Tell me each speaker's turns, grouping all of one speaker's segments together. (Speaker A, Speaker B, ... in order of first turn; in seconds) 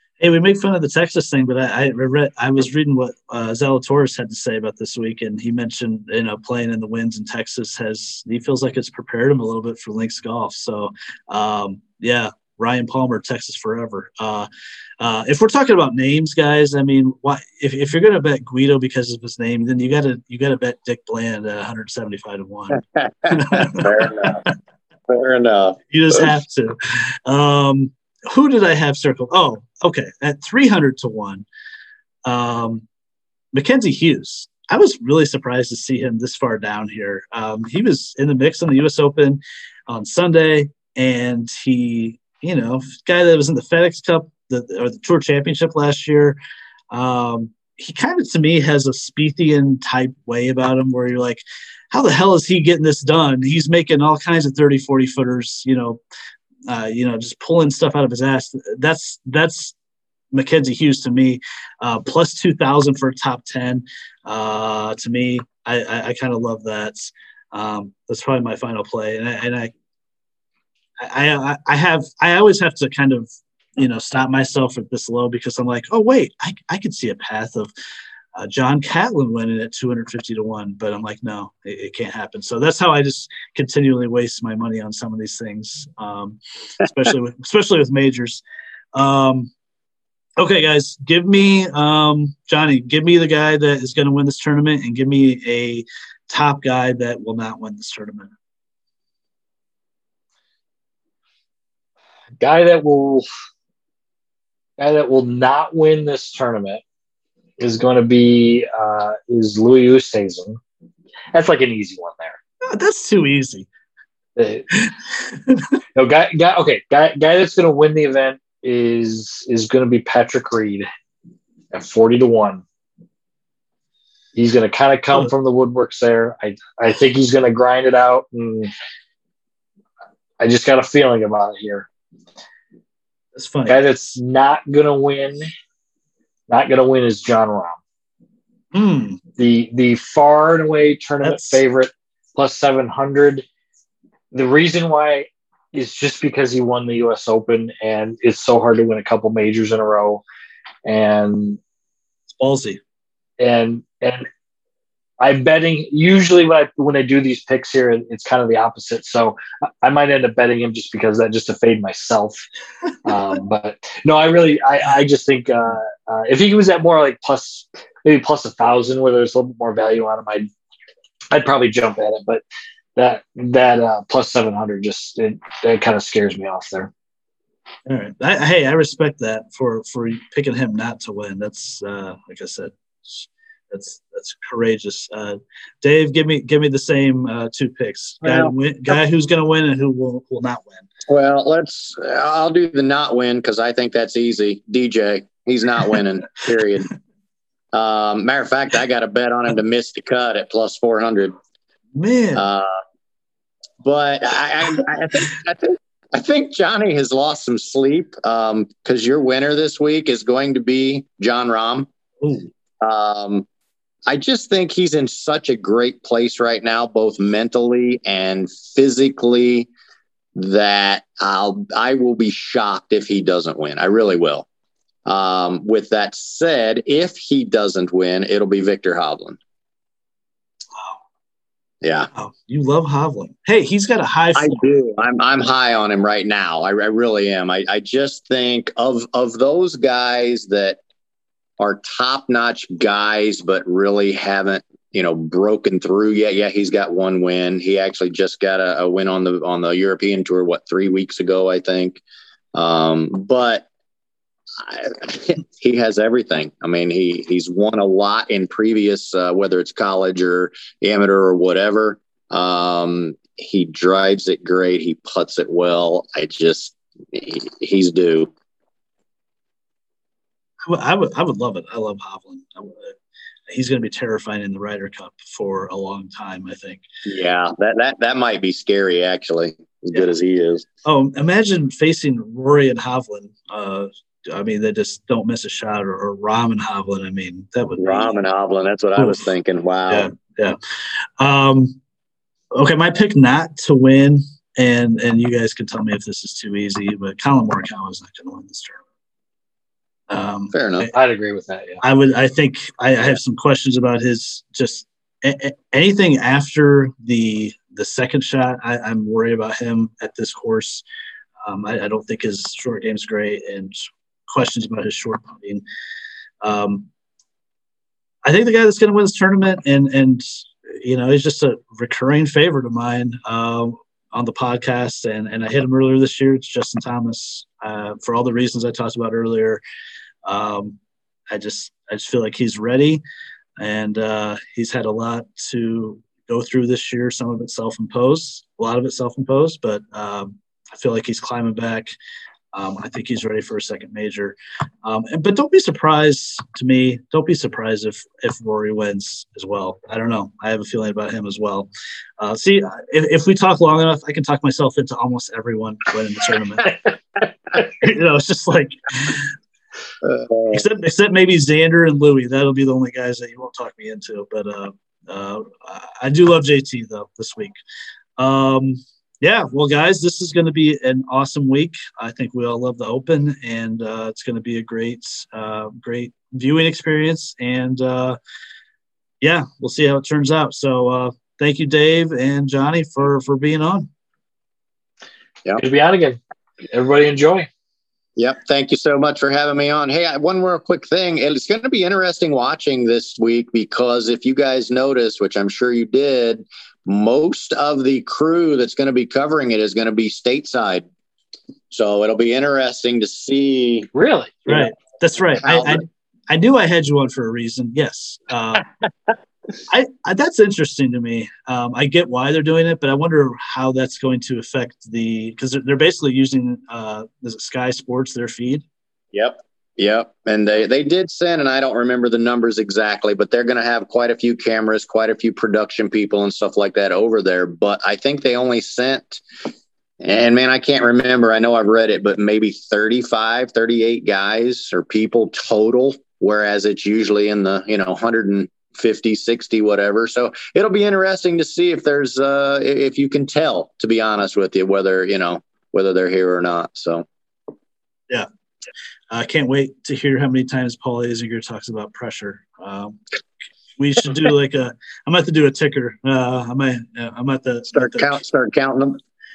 Speaker A: 0.2-14.5, 15.0-24.5, 25.9-31.5, 32.2-32.9, 33.5-46.4, 46.9-56.0, 56.7-59.8, 60.3-69.7, 71.0-77.7, 78.4-88.4, 89.0-89.5, 90.4-98.3, 112.7-113.7, 133.4-133.8, 138.7-139.2, 141.2-141.6, 152.4-152.8, 177.9-190.9, 201.9-202.4, 212.2-212.5, 232.2-234.7, 270.7-273.0, 273.5-276.8, 280.9-288.2, 289.0-289.2, 289.9-290.6, 291.2-291.8, 292.5-298.8, 300.1-300.9, 301.8-310.8, 311.4-315.6, 316.4-316.9, 318.2-329.6, 330.2-330.8, 331.3-333.0, 333.6-341.9, 342.5-351.7, 352.2-356.9, 357.6-359.3, 360.5-367.6, 368.2-378.2, 379.2-383.9, 404.5-408.7, 409.7-418.6, 449.1-453.0, 453.8-458.2
Speaker B: 22.8-24.4, 25.1-26.3, 188.2-188.5, 191.1-196.9, 197.7-201.3, 202.4-202.7, 203.8-211.9, 212.8-213.5, 214.1-219.7, 220.3-224.5, 225.1-229.4, 231.8-232.1, 234.3-240.8, 241.6-252.0, 252.6-253.7, 254.6-268.3, 277.1-280.7, 287.8-290.1, 300.5-300.9, 360.0-360.6, 388.2-400.9, 401.7-403.9, 405.3-405.9, 419.1-429.2, 430.0-447.1, 457.7-459.0
Speaker C: 102.4-103.3, 104.8-106.8, 107.6-110.6, 111.3-112.4, 114.4-114.7, 116.0-120.9, 121.7-122.6, 124.3-128.7, 130.4-131.9, 133.7-135.5, 136.5-137.8, 139.4-143.4, 144.3-150.2, 150.8-151.6, 153.4-154.3, 155.2-162.4, 163.1-170.5, 171.3-172.4, 173.0-176.9, 300.9-301.8, 385.6-387.5, 403.9-404.4